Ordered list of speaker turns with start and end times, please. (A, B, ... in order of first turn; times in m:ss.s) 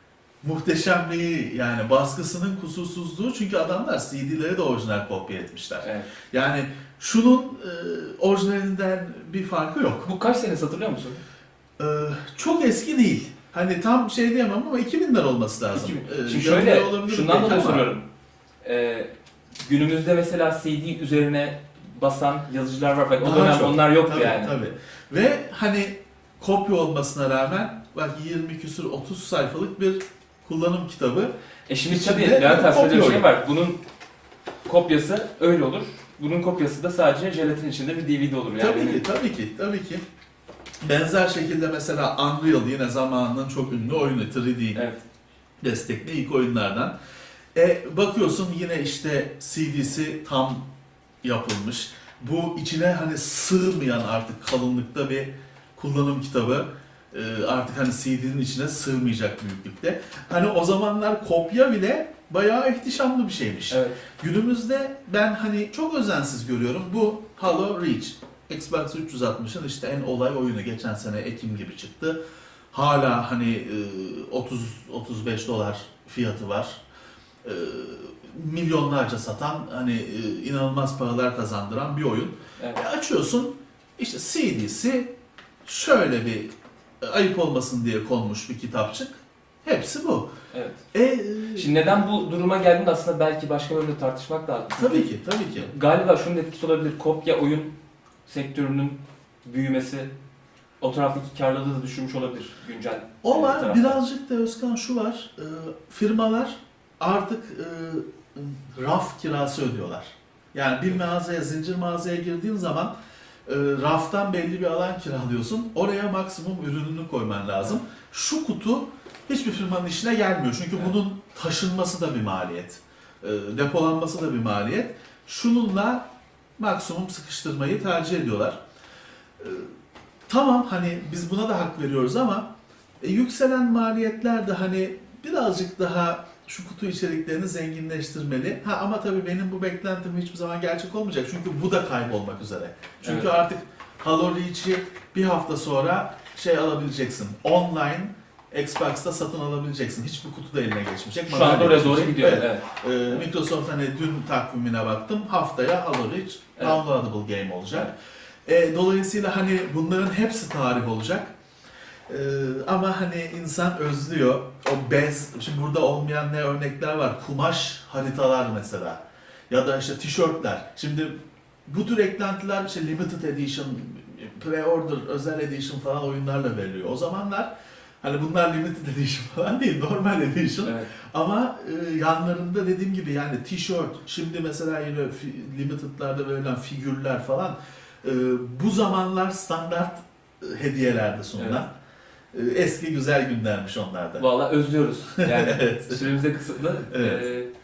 0:00.4-0:10.1 A
0:05.8-0:06.1 B
0:10.0-0:11.2 B
0:11.8-0:17.9 A
0:15.7-0:18.1 B
0:18.6-0:24.6 B
0:23.2-0:31.3 A
0:31.7-0:33.8 B
0:31.9-0:33.3 A
0:34.7-0:39.0 B
0:38.6-0:40.0 A
0:40.8-0:44.8 A
0:44.8-0:45.0 B
0:45.6-0:46.9 A
0:47.6-0:50.6 A
0:51.2-1:12.2 A
1:03.7-1:04.0 B
1:12.7-1:16.8 A
1:17.4-1:25.1 A
1:22.6-1:22.8 B
1:25.6-1:30.3 A
1:30.5-1:30.8 B
1:30.9-1:32.0 A
1:31.6-1:37.7 B
1:34.8-1:35.7 A
1:38.3-1:40.1 B
1:40.8-1:44.0 B
1:43.2-1:52.9 A
1:53.5-2:06.0 A
2:06.6-2:08.6 A
2:09.4-2:09.7 A
2:10.3-2:12.5 A
2:13.0-2:38.0 A
2:23.0-2:23.3 B
2:31.3-2:33.2 B
2:38.5-2:41.3 A
2:42.1-2:57.5 A
2:58.0-3:11.7 A
3:00.6-3:00.9 B
3:11.4-3:11.6 B
3:12.3-3:14.2 A
3:14.2-3:17.5 B
3:15.2-3:16.1 A
3:16.9-3:17.3 A